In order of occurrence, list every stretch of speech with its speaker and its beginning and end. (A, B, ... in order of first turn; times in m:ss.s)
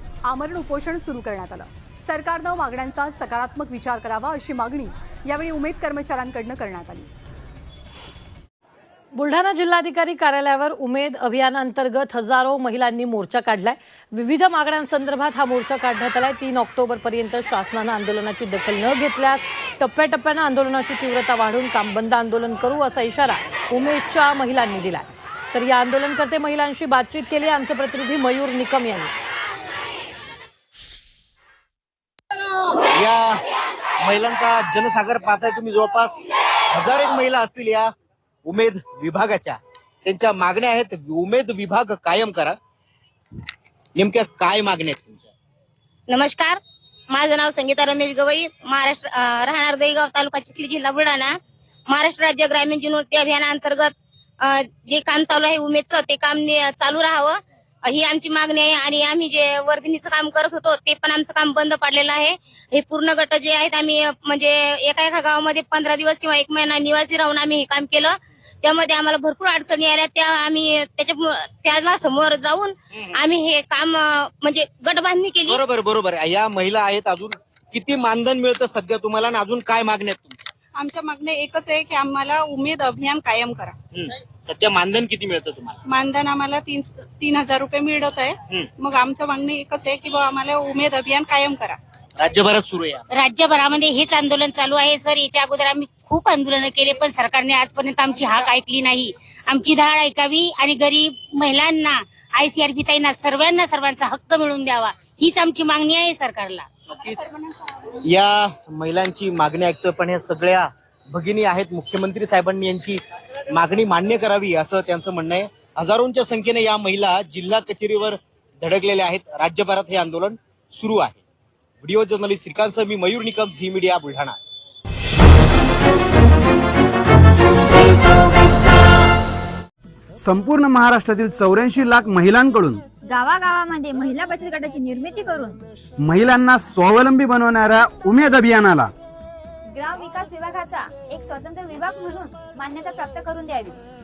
0:00.2-0:07.1 A
0:09.1-0:29.1 B
0:32.9-0:33.4 C
0:34.0-0:36.2 C
0:36.7-0:37.9 C
0:38.4-0:42.6 C
0:44.0-0:45.3 C
0:46.1-0:46.6 D
0:47.1-0:51.3 D
0:51.9-0:53.9 D
0:54.4-1:15.6 D
1:15.5-1:20.4 C
1:20.9-1:23.7 E
1:23.9-1:25.8 C
1:26.0-1:28.3 E
1:28.9-1:31.7 E
1:32.2-1:33.0 C
1:33.1-1:46.7 F
1:46.9-1:47.3 C
1:48.0-1:53.0 C
1:53.5-2:01.2 C
2:01.8-2:04.4 C
2:10.2-2:12.8 G
2:13.1-2:15.6 H
2:16.0-2:18.9 G
2:19.7-2:23.8 H